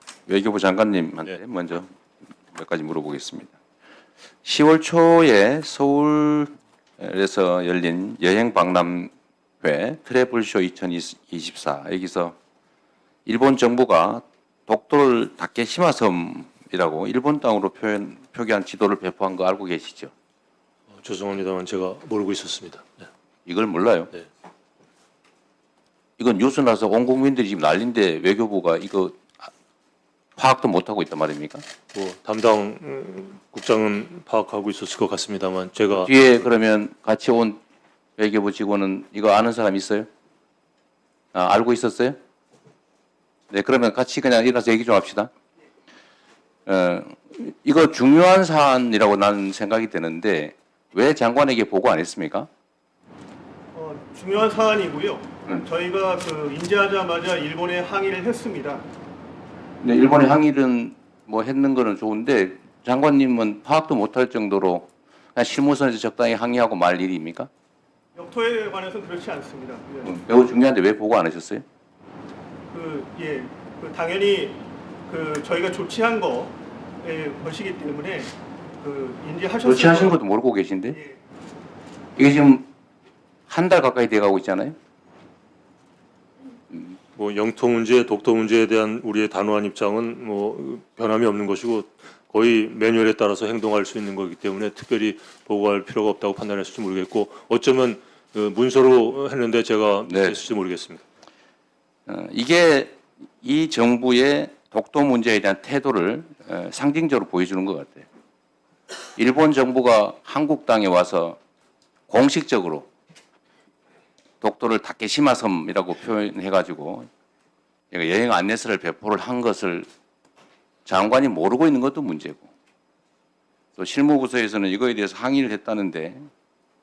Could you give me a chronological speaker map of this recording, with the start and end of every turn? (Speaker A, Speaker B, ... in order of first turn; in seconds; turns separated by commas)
Speaker A: 0.3-1.9, Speaker A: 2.5-3.5, Speaker A: 4.4-12.3, Speaker A: 13.2-20.1, Speaker B: 20.9-23.0, Speaker A: 23.5-24.1, Speaker A: 26.2-29.4, Speaker A: 30.4-31.6, Speaker B: 31.9-36.1, Speaker A: 36.0-37.6, Speaker A: 38.2-40.1, Speaker A: 41.3-42.2, Speaker A: 43.5-45.3, Speaker A: 46.7-52.5, Speaker C: 53.7-58.8, Speaker A: 59.8-67.5, Speaker C: 68.2-70.1, Speaker A: 70.0-71.6, Speaker C: 72.7-80.2, Speaker A: 79.6-81.0, Speaker C: 80.9-81.2, Speaker A: 82.2-82.7, Speaker A: 83.5-84.8, Speaker B: 87.2-101.0, Speaker A: 100.0-100.4, Speaker A: 102.1-108.0, Speaker A: 109.2-111.4, Speaker A: 112.1-112.9, Speaker A: 114.4-117.1, Speaker A: 117.9-119.9, Speaker A: 120.9-122.5, Speaker A: 123.8-126.3